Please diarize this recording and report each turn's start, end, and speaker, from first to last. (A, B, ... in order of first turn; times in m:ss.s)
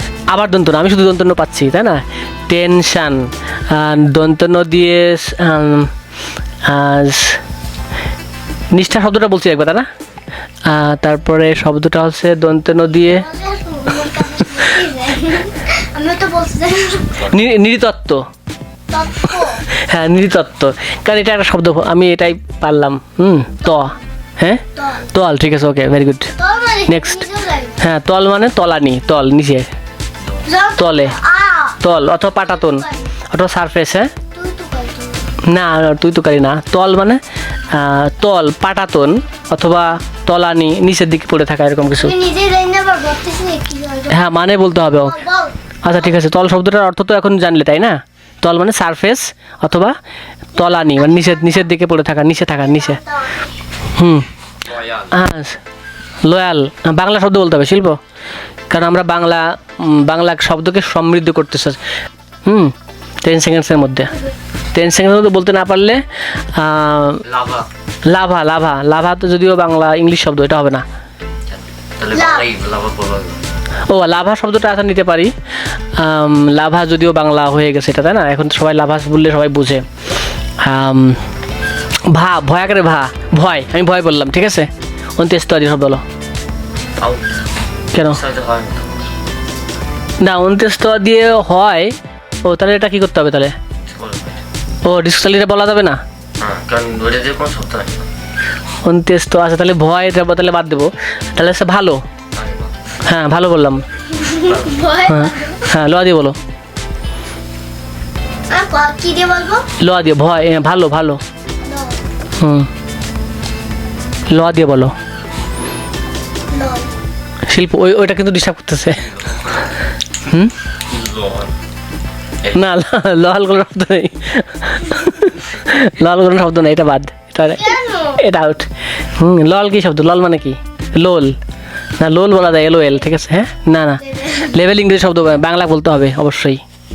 0:00.3-0:05.9 A
0:06.6-0:07.4 A
0:08.7-0:09.9 A
0:10.7-0:13.3 A
0:13.1-0:17.2 B
0:17.3-0:18.3 A
0:18.9-0:19.6 B
0:19.7-0:26.3 A
0:24.8-0:25.1 B
0:26.4-0:27.8 B
0:26.9-0:27.3 A
0:27.8-0:29.7 A
0:30.2-0:30.5 C
0:30.5-0:31.8 B
0:30.8-0:31.2 A
0:31.8-0:34.1 A
0:32.3-0:33.1 B
0:34.3-0:35.4 B
0:35.4-0:42.2 A
0:42.0-0:44.3 B
0:44.1-0:45.2 A
0:45.0-0:45.6 B
0:45.8-0:50.0 A
0:50.6-0:53.0 A
0:50.6-0:51.7 B
0:52.6-0:53.5 B
0:54.0-0:54.3 A
0:54.6-0:55.2 C
0:55.1-0:55.6 A
0:56.2-0:58.0 A
0:58.7-1:01.8 A
1:02.5-1:04.1 A
1:04.7-1:06.0 A
1:06.5-1:07.2 A
1:07.2-1:07.7 C
1:08.1-1:10.8 A
1:11.5-1:13.5 C
1:12.1-1:12.5 B
1:13.9-1:15.3 A
1:16.0-1:19.8 A
1:20.6-1:21.2 A
1:22.1-1:26.0 A
1:27.0-1:27.5 C
1:27.9-1:28.2 A
1:28.0-1:29.1 C
1:30.2-1:33.6 A
1:33.8-1:34.4 C
1:34.8-1:36.0 A
1:36.4-1:38.1 C
1:38.8-1:42.0 A
1:42.3-1:42.8 C
1:43.1-1:43.9 A
1:44.2-1:45.7 B
1:44.4-1:44.8 C
1:45.1-1:46.4 A
1:48.5-1:49.7 B
1:49.8-1:51.2 A
1:51.6-1:52.0 B
1:52.4-1:52.7 A
1:54.3-1:55.0 A
1:56.5-1:56.9 B
1:57.5-1:59.1 A
1:59.0-1:59.6 C
2:00.2-2:00.5 A
2:00.9-2:01.5 C
2:02.5-2:11.4 A
2:07.6-2:08.2 B
2:12.0-2:16.6 A
2:14.1-2:14.5 B